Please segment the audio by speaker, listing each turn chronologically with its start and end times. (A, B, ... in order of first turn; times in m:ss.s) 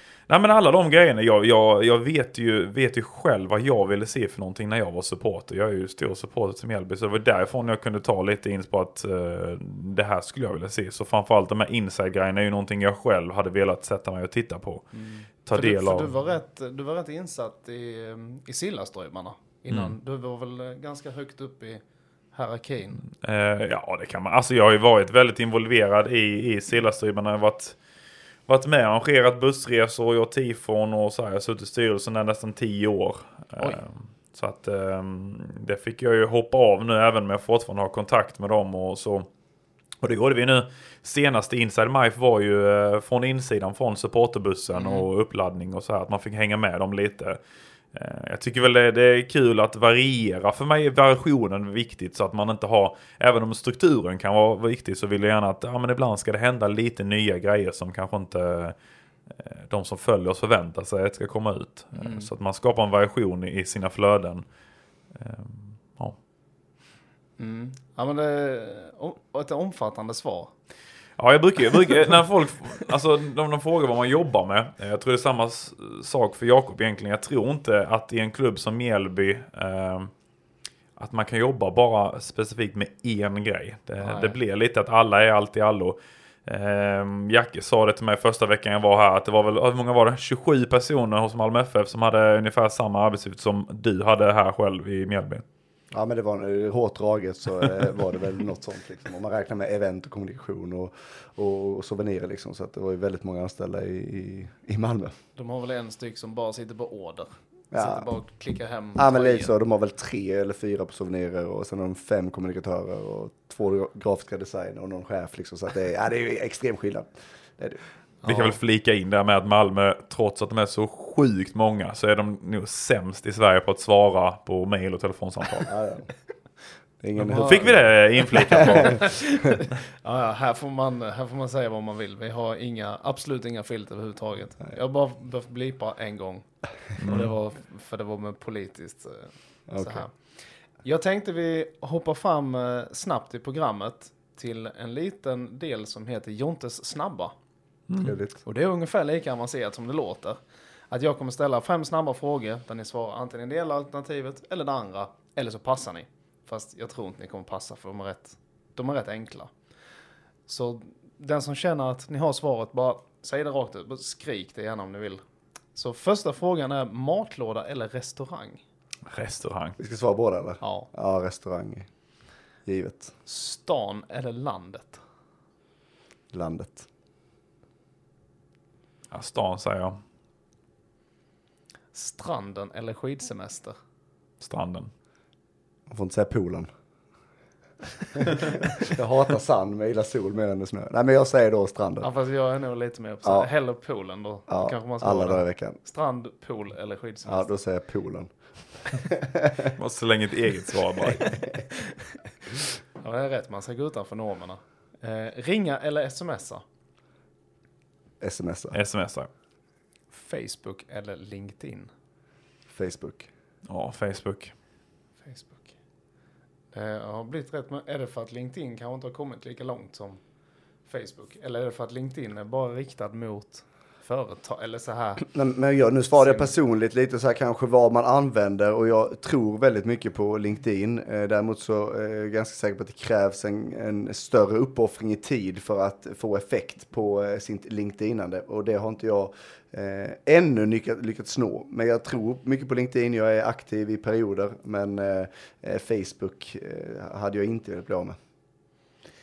0:00.3-0:14.9 A
0:14.9-0:21.8 B
0:15.4-0:16.1 A
0:22.3-0:23.0 B
0:23.1-0:27.8 A
0:28.5-0:39.3 A
0:40.0-0:47.4 A
0:44.7-0:45.1 B
0:47.9-0:58.8 A
0:59.4-1:04.4 A
1:02.0-1:02.3 B
1:05.1-1:06.2 A
1:07.4-1:10.5 B
1:11.2-1:20.1 A
1:21.0-1:35.4 A
1:24.0-1:24.4 B
1:35.9-1:45.1 C
1:45.4-1:49.5 B
1:47.7-1:48.1 C
1:49.0-1:57.8 C
1:58.2-1:58.6 B
1:58.2-2:05.7 A
2:05.7-2:06.1 C
2:07.0-2:07.9 C
2:07.2-2:09.2 A
2:07.3-2:27.4 B
2:08.4-2:08.9 C
2:17.0-2:17.3 A
2:19.7-2:20.0 C
2:27.9-2:28.2 A
2:28.0-2:28.4 C
2:28.4-2:30.4 B
2:30.9-2:39.5 B
2:40.5-2:45.2 B
2:45.8-2:48.6 B
2:49.1-2:49.8 A
2:49.8-2:51.9 C
2:50.6-2:50.9 B
2:52.7-2:53.1 C
2:53.3-2:55.0 B
2:56.3-2:56.9 C
2:59.1-3:00.0 A
3:01.9-3:03.8 B
3:04.4-3:04.9 A
3:05.9-3:06.7 C
3:08.5-3:12.1 C
3:12.0-3:17.5 B
3:13.2-3:13.5 C
3:14.5-3:15.8 C
3:17.3-3:18.3 C
3:18.9-3:19.7 C
3:19.8-3:21.4 A
3:21.2-3:21.6 C
3:21.2-3:22.1 B
3:23.0-3:26.6 B
3:28.2-3:28.8 C
3:28.7-3:29.3 A
3:30.1-3:31.9 B
3:32.7-3:33.3 C
3:33.7-3:34.5 A
3:35.2-3:35.7 B
3:36.7-3:40.2 B
3:40.9-3:45.3 B
3:45.2-4:08.2 C
3:46.2-3:46.5 B